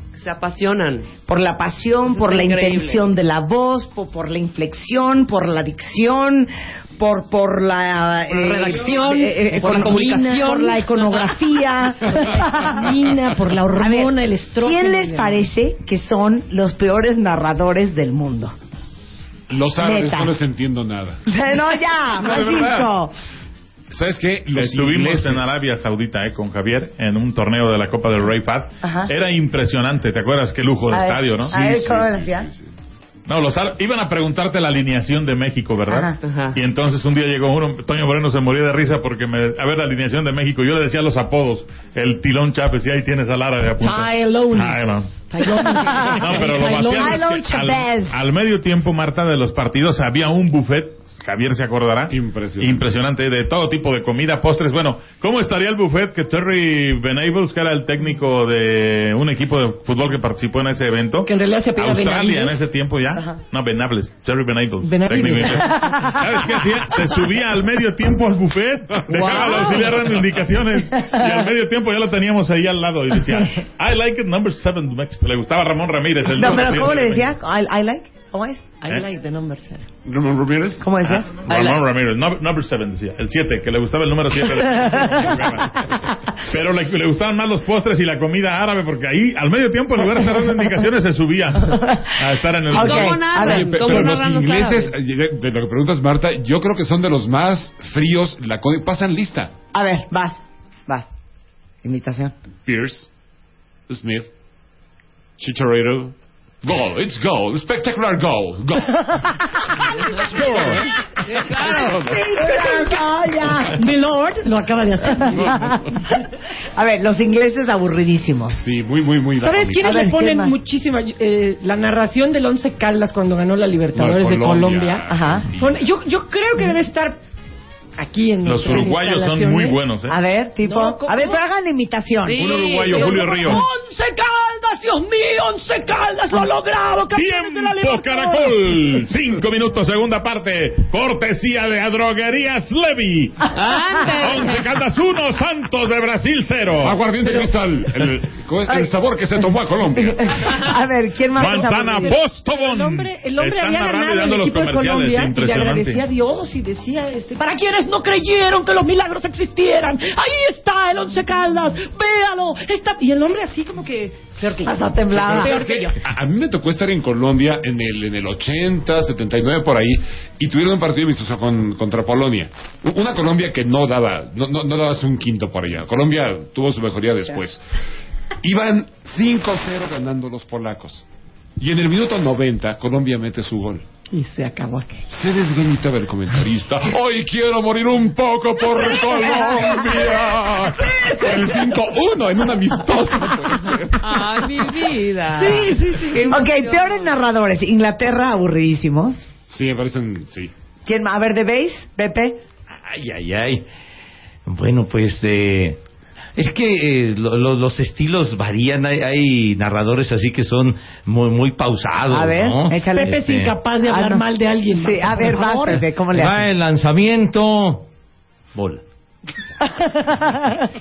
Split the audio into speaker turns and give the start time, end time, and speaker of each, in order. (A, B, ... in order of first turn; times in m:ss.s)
0:00.1-0:01.1 A
0:01.3-0:12.9 B
0:02.1-0:03.1 A
0:08.3-0:11.4 A
0:12.2-0:15.4 C
0:13.7-0:18.6 B
0:19.5-0:21.3 D
0:19.8-0:20.4 B
0:21.2-0:23.1 B
0:22.1-0:22.9 D
0:23.9-0:25.6 D
0:24.5-0:31.6 E
0:28.8-0:29.1 B
0:30.9-0:32.5 B
0:31.4-0:32.7 D
0:33.3-0:45.1 E
0:35.9-0:36.2 B
0:36.2-0:36.6 A
0:43.8-0:47.3 C
0:45.7-0:48.2 B
0:46.1-1:17.3 E
0:52.1-0:52.9 D
1:01.2-1:02.6 C
1:04.8-1:06.1 C
1:09.1-1:09.6 D
1:09.1-1:09.9 A
1:16.3-1:18.7 B
1:18.8-1:19.8 C
1:20.0-1:20.9 D
1:20.8-1:21.5 B
1:21.2-1:33.3 E
1:21.5-1:21.8 A
1:31.8-1:32.1 B
1:32.7-1:34.1 B
1:32.7-1:34.9 A
1:33.3-1:39.5 D
1:39.7-1:41.1 B
1:41.8-1:42.3 B
1:42.6-1:43.1 D
1:43.9-1:44.3 D
1:45.4-1:51.0 D
1:51.3-1:52.1 A
1:51.6-1:52.3 D
1:51.8-1:53.8 B
1:52.4-1:53.0 C
1:53.6-1:56.0 C
1:55.3-1:55.9 D
1:56.7-1:58.6 B
1:58.6-2:00.1 D
1:59.4-2:07.2 C
1:59.8-2:00.5 B
2:03.9-2:05.8 D
2:05.1-2:05.4 B
2:08.0-2:09.8 C
2:08.4-2:10.2 E
2:10.1-2:12.7 B
2:10.6-2:11.4 C
2:12.2-2:13.3 A
2:12.4-2:13.6 E
2:12.4-2:18.8 C
2:17.1-2:27.0 E
2:23.5-2:24.7 A
2:26.8-2:30.5 D
2:28.6-2:28.9 B
2:30.0-2:32.2 B
2:31.4-2:36.0 E
2:31.5-2:46.0 C
2:45.1-2:57.6 D
2:58.4-3:01.0 D
3:01.6-3:03.8 D
3:04.1-3:05.0 C
3:05.1-3:14.5 D
3:14.0-3:17.1 A
3:15.4-3:16.4 C
3:16.3-3:19.2 B
3:19.5-3:20.5 D
3:20.8-3:22.4 B
3:22.7-3:23.6 F
3:24.4-3:25.8 F
3:26.4-3:33.5 F
3:32.0-3:33.2 B
3:32.9-3:35.8 C
3:33.8-3:36.5 B
3:36.1-3:37.9 F
3:38.5-3:38.8 F
3:39.7-3:40.4 B